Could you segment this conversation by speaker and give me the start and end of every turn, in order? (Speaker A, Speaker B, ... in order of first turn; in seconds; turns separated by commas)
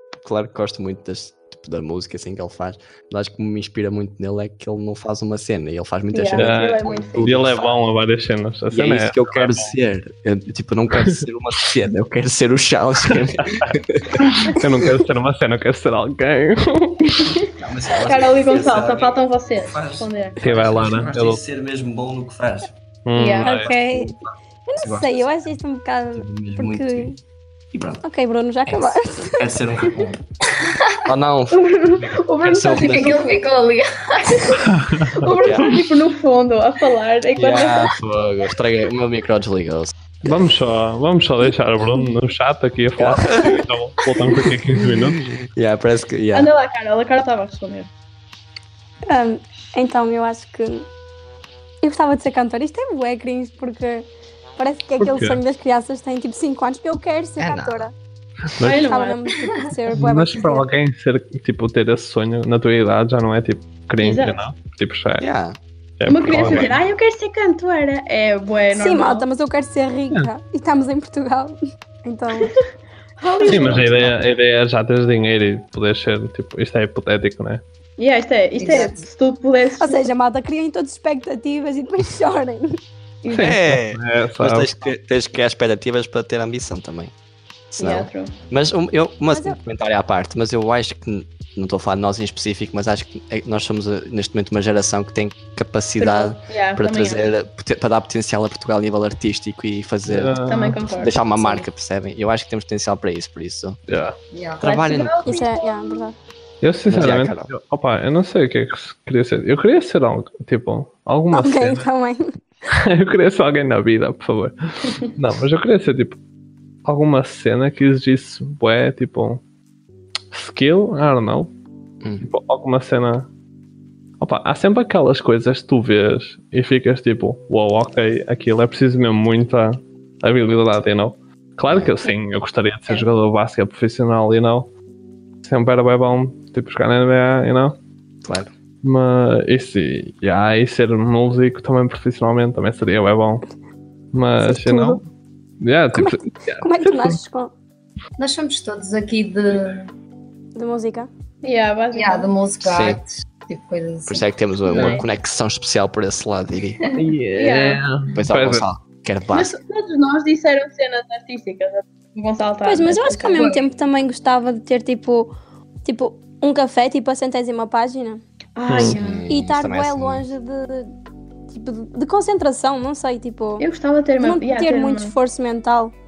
Speaker A: 0.2-7.8, Speaker B: 6.1-7.4, Speaker C: 6.4-9.7, Speaker A: 8.7-14.2, Speaker C: 13.1-17.3, Speaker B: 17.2-20.4, Speaker A: 17.5-22.7, Speaker C: 20.4-21.4, Speaker C: 23.1-23.7, Speaker B: 23.1-23.7, Speaker D: 23.4-27.2, Speaker A: 23.8-24.2, Speaker A: 24.8-25.3, Speaker A: 26.1-27.1, Speaker A: 27.7-28.0, Speaker D: 28.0-29.5, Speaker A: 28.7-30.2, Speaker E: 30.6-31.1, Speaker A: 31.0-33.2, Speaker B: 31.5-33.4, Speaker E: 32.8-34.7, Speaker B: 34.5-37.9, Speaker C: 34.6-35.3, Speaker A: 35.2-35.9, Speaker A: 37.4-39.9, Speaker C: 40.2-45.2, Speaker A: 43.0-43.6, Speaker A: 44.2-46.5, Speaker B: 46.3-47.9, Speaker D: 49.1-50.9, Speaker D: 51.8-54.0, Speaker D: 54.6-57.9, Speaker C: 55.0-55.4, Speaker A: 57.4-57.9, Speaker B: 58.6-59.2, Speaker D: 58.6-60.7, Speaker C: 59.9-65.2, Speaker B: 64.0-64.4, Speaker A: 65.2-65.5, Speaker C: 66.0-66.7, Speaker B: 66.0-69.2, Speaker A: 66.1-66.8, Speaker D: 68.7-72.5, Speaker B: 73.2-73.9, Speaker A: 73.4-74.2, Speaker C: 73.4-77.6, Speaker B: 78.0-80.1, Speaker E: 78.6-79.0, Speaker D: 79.8-82.8, Speaker B: 83.2-83.5, Speaker C: 83.3-84.7, Speaker A: 83.3-87.1, Speaker A: 87.7-103.8, Speaker B: 87.8-88.3, Speaker D: 89.3-89.6, Speaker B: 96.0-97.2, Speaker C: 100.0-100.8, Speaker B: 100.4-101.6, Speaker C: 103.9-104.2, Speaker E: 104.3-104.6, Speaker A: 104.6-105.2, Speaker B: 104.6-106.1, Speaker D: 105.2-106.2, Speaker C: 106.6-111.9, Speaker A: 106.9-107.5, Speaker D: 111.3-112.4, Speaker C: 112.7-116.2, Speaker C: 116.8-119.4, Speaker C: 120.3-121.5, Speaker C: 122.2-123.3, Speaker C: 124.2-134.7, Speaker C: 135.4-137.7, Speaker C: 138.8-143.4, Speaker C: 144.1-145.0, Speaker D: 144.4-145.0, Speaker C: 145.6-147.2, Speaker D: 145.9-147.5, Speaker E: 148.2-149.9, Speaker D: 150.6-151.1, Speaker B: 151.4-152.3, Speaker E: 151.9-154.2, Speaker A: 152.6-153.0, Speaker A: 154.1-156.9, Speaker B: 154.7-155.1, Speaker C: 154.7-155.0, Speaker C: 156.9-158.7, Speaker B: 157.3-157.8, Speaker A: 158.1-159.6, Speaker B: 159.3-163.5, Speaker D: 162.6-165.3, Speaker E: 163.3-163.6, Speaker D: 165.8-168.2, Speaker B: 168.6-169.3, Speaker C: 168.7-169.0, Speaker A: 168.8-170.2, Speaker D: 169.3-170.9, Speaker D: 171.5-173.7, Speaker B: 173.6-175.1, Speaker D: 174.2-175.9